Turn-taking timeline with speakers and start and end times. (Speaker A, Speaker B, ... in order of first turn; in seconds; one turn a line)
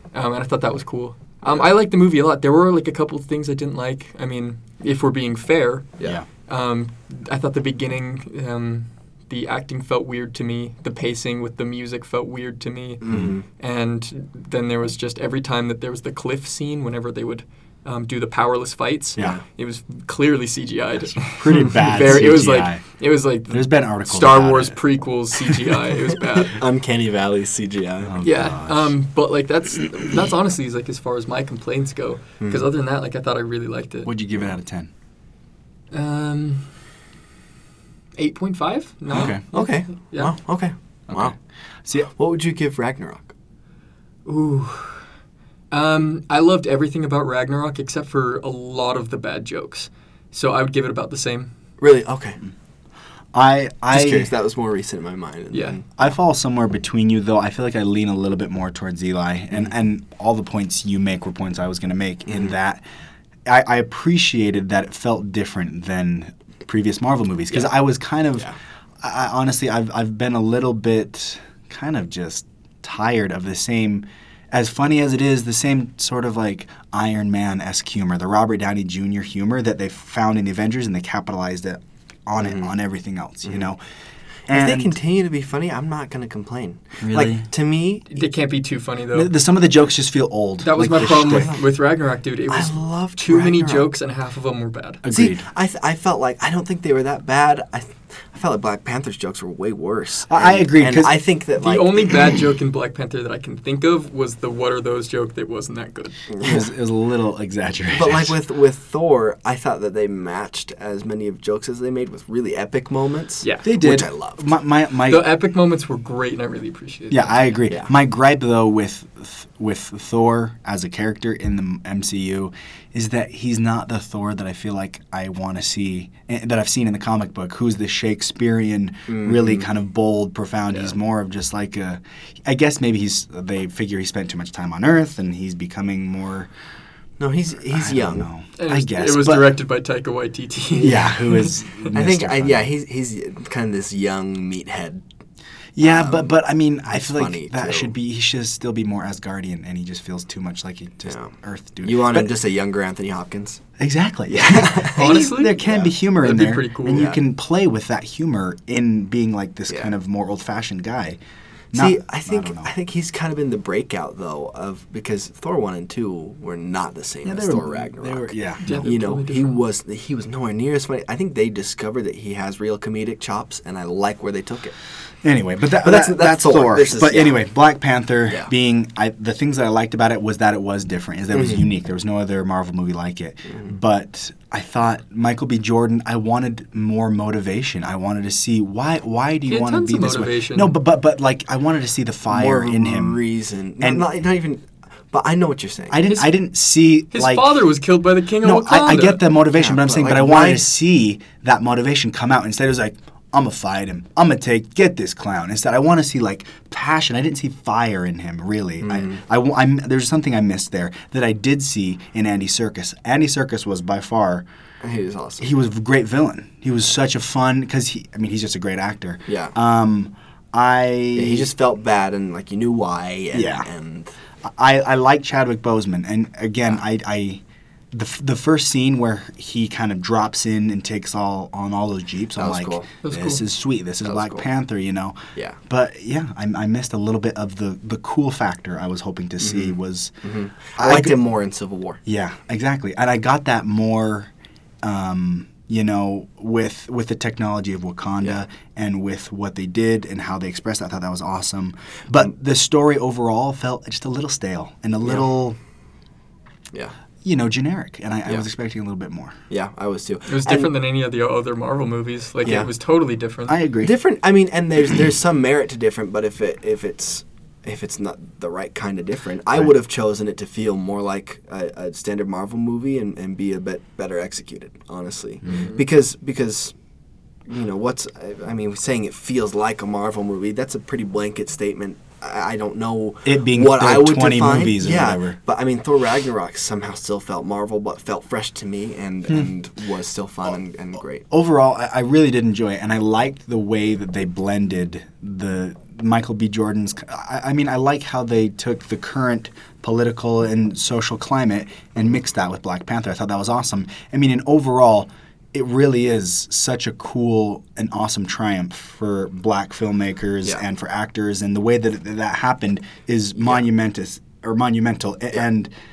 Speaker A: 0.1-5.9
Speaker A: 6.5-13.0
Speaker B: 13.0-13.4
Speaker A: 13.6-26.6
Speaker B: 19.2-19.4
Speaker C: 21.1-22.8
Speaker C: 23.5-24.8
Speaker B: 26.4-28.2
Speaker C: 28.0-28.9
Speaker A: 28.2-34.1
Speaker B: 32.4-32.6
Speaker C: 34.0-34.9
Speaker A: 35.9-36.6
Speaker A: 38.2-40.3
Speaker C: 39.1-39.4
Speaker B: 39.2-41.3
Speaker C: 41.1-42.1
Speaker B: 42.1-43.3
Speaker A: 44.2-45.0
Speaker A: 45.7-51.5
Speaker B: 51.8-52.4
Speaker C: 53.3-54.3
Speaker B: 53.9-55.9
Speaker A: 55.5-55.8
Speaker C: 56.0-62.8
Speaker C: 63.5-68.5
Speaker C: 69.0-83.8
Speaker B: 82.4-82.7
Speaker C: 84.5-85.0
Speaker B: 84.5-88.2
Speaker C: 87.0-87.5
Speaker A: 88.1-89.3
Speaker C: 89.1-91.5
Speaker A: 90.6-95.0
Speaker B: 91.0-91.7
Speaker B: 92.5-93.9
Speaker C: 95.0-95.5
Speaker B: 95.1-102.3
Speaker C: 100.3-101.2
Speaker A: 101.6-106.2
Speaker B: 106.3-106.7
Speaker C: 106.4-108.3
Speaker B: 107.9-114.5
Speaker A: 113.4-113.7
Speaker C: 113.6-115.3
Speaker A: 115.1-117.5
Speaker C: 117.1-136.5
Speaker B: 129.1-129.6
Speaker B: 137.2-138.3
Speaker C: 137.7-139.6
Speaker A: 138.6-141.6
Speaker C: 140.8-142.7
Speaker B: 141.9-145.0
Speaker C: 145.8-152.3
Speaker B: 145.8-147.9
Speaker B: 151.1-153.6
Speaker C: 153.8-161.2
Speaker B: 154.4-155.0
Speaker A: 154.9-157.2
Speaker B: 155.6-155.9
Speaker B: 156.9-157.2
Speaker C: 161.7-162.7
Speaker B: 161.7-174.8
Speaker C: 167.2-168.6
Speaker A: 168.6-169.6
Speaker C: 175.2-193.2
Speaker B: 175.8-177.4
Speaker B: 181.3-181.7
Speaker A: 189.5-190.7
Speaker B: 192.3-196.0
Speaker C: 193.8-194.1
Speaker C: 195.9-197.6
Speaker A: 197.1-199.2
Speaker C: 198.4-214.5
Speaker B: 199.5-200.7
Speaker B: 208.8-209.2
Speaker B: 214.8-215.5
Speaker C: 215.4-221.5
Speaker B: 219.3-219.5
Speaker B: 221.2-224.1
Speaker C: 223.3-223.7
Speaker C: 224.4-240.1
Speaker B: 232.4-232.9
Speaker A: 233.0-233.4
Speaker B: 234.0-234.5
Speaker B: 239.4-242.0
Speaker C: 240.8-241.1
Speaker C: 242.1-244.3
Speaker C: 244.8-255.6
Speaker C: 257.2-259.4
Speaker B: 259.5-260.7
Speaker A: 260.3-263.6
Speaker C: 263.5-263.9
Speaker B: 263.8-276.7
Speaker A: 275.5-275.8
Speaker B: 277.5-291.2
Speaker C: 283.2-285.4
Speaker C: 291.3-315.7